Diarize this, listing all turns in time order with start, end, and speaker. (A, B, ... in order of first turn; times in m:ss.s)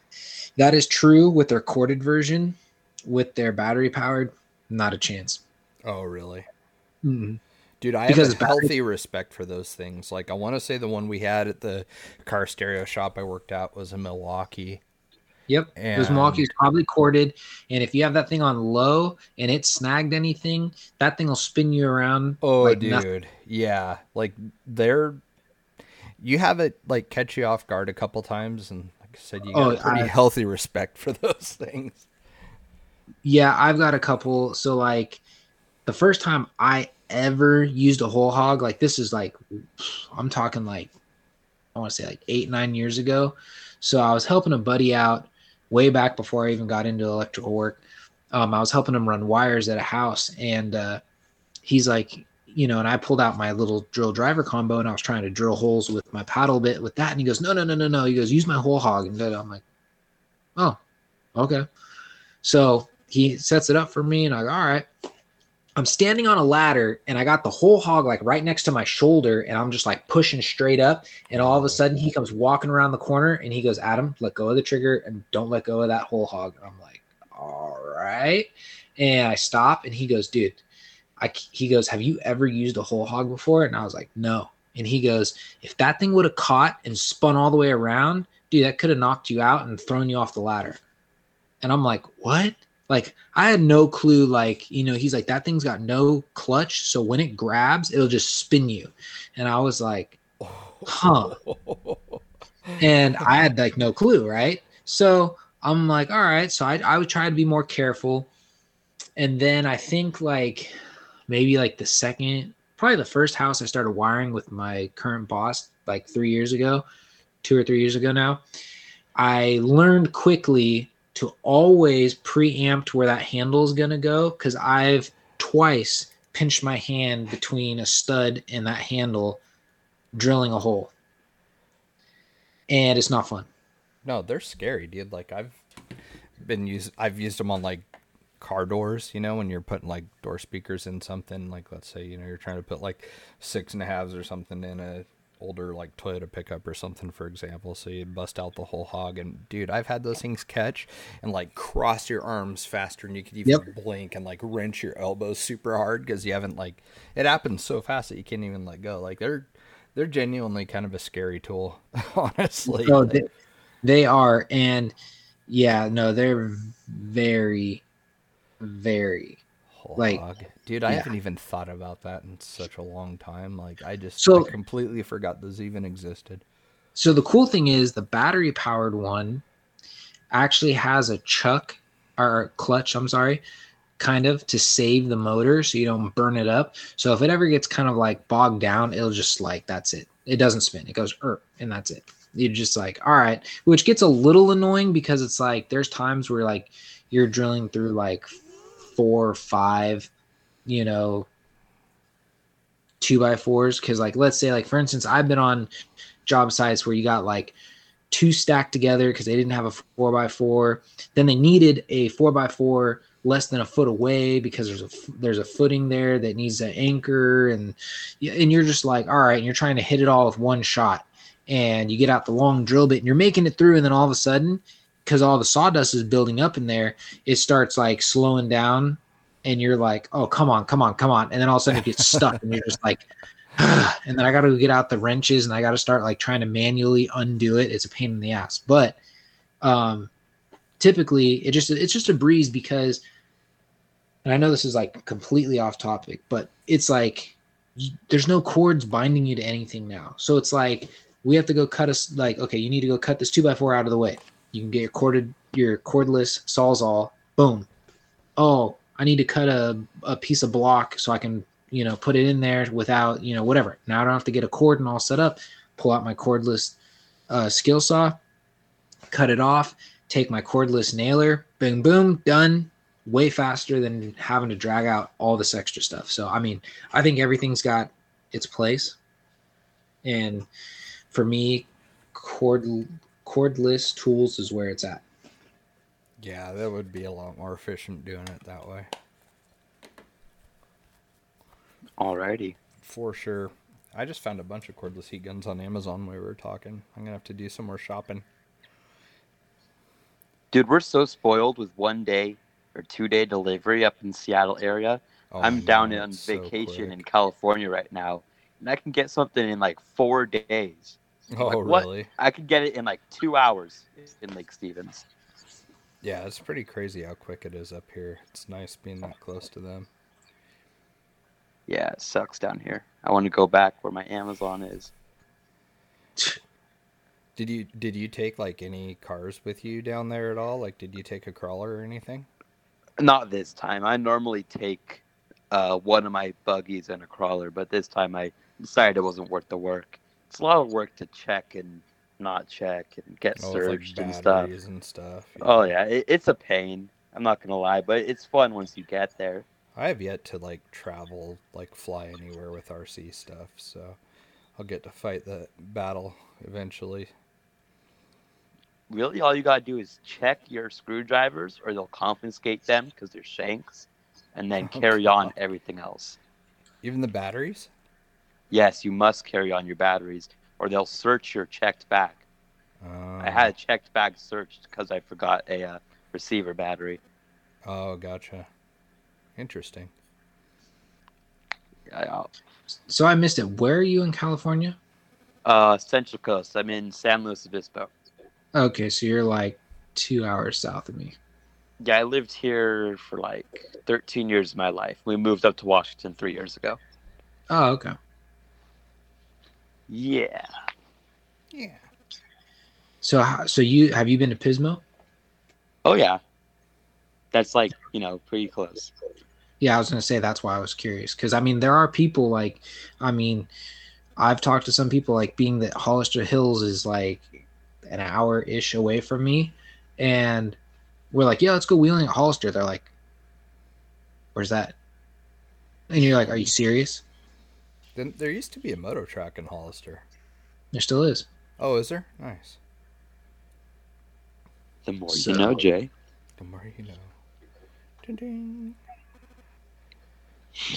0:00.6-0:05.4 A
0:05.9-0:06.5 B
0:07.0-0:07.4 A
0:07.8-0:14.8 B
0:08.1-0:08.7 A
0:15.5-0:23.0 A
0:15.8-0:16.5 B
0:22.4-0:25.2 B
0:26.2-0:32.1 B
0:29.5-0:30.1 A
0:33.2-0:35.2 A
0:35.9-0:40.9 A
0:41.8-0:47.8 A
0:48.3-0:51.0 A
0:51.6-0:59.6 A
1:01.4-1:01.6 A
1:02.4-1:04.9 A
1:05.8-1:20.6 A
1:11.3-1:11.8 B
1:21.2-1:30.8 A
1:31.6-1:40.2 A
1:40.4-1:43.5 B
1:40.9-1:41.4 A
1:42.8-1:48.3 A
1:49.2-1:50.8 A
1:51.3-1:56.8 A
1:57.4-1:58.4 A
1:59.2-2:09.4 A
2:10.1-2:10.9 A
2:12.7-2:13.5 A
2:14.0-2:15.6 B
2:16.4-2:17.9 B
2:18.4-2:43.2 B
2:42.7-2:43.3 A
2:43.8-2:44.9 A
2:45.5-2:47.8 A
2:48.6-2:49.4 A
2:49.7-2:56.4 B
2:50.0-2:50.2 A
2:54.2-2:54.5 A
2:57.0-2:59.4 A
3:00.3-3:03.4 A
3:04.0-3:18.4 A
3:18.9-3:20.1 A
3:20.7-3:21.3 A
3:23.0-3:25.7 A
3:26.3-3:27.6 A
3:28.1-3:53.0 A
3:51.7-3:52.4 B
3:53.6-3:59.0 A
3:59.6-4:00.1 A
4:00.8-4:03.0 A
4:04.2-4:17.7 A
4:18.4-4:26.8 A
4:27.3-4:28.2 A
4:29.1-4:39.0 A
4:40.0-4:40.5 A
4:41.1-4:45.0 A
4:46.2-4:48.9 B
4:52.0-4:52.6 C
4:52.8-4:58.2 B
5:00.5-5:15.0 C
5:05.3-5:07.0 B
5:11.3-5:12.1 B
5:16.0-5:19.9 B
5:21.7-5:24.9 C
5:27.4-5:32.3 B
5:33.0-5:44.5 C
5:43.4-5:45.7 B
5:45.4-5:49.5 C
5:49.8-5:54.0 B
5:54.6-5:57.1 B
5:58.9-6:06.2 C
6:04.6-6:05.3 B
6:06.8-6:07.7 B
6:08.5-6:12.2 C
6:12.8-6:13.5 B
6:13.2-6:17.0 C
6:17.6-6:18.5 B
6:19.4-6:19.9 B
6:21.9-6:22.3 C
6:22.9-6:24.8 A
6:25.4-6:27.9 C
6:28.6-6:31.2 A
6:31.8-6:36.8 C
6:37.5-6:37.9 A
6:39.9-6:40.5 C
6:41.5-6:41.8 B
6:43.0-6:44.8 A
6:45.8-6:46.2 C
6:47.3-6:48.9 C
6:49.6-6:53.5 A
6:54.2-7:00.6 A
7:01.1-7:02.9 A
7:04.4-7:04.8 A
7:05.9-7:07.0 A
7:08.0-7:10.0 B
7:10.7-7:11.2 A
7:11.6-7:12.6 B
7:14.8-7:15.9 C
7:15.1-7:15.6 A
7:16.4-7:17.1 B
7:18.0-7:18.8 B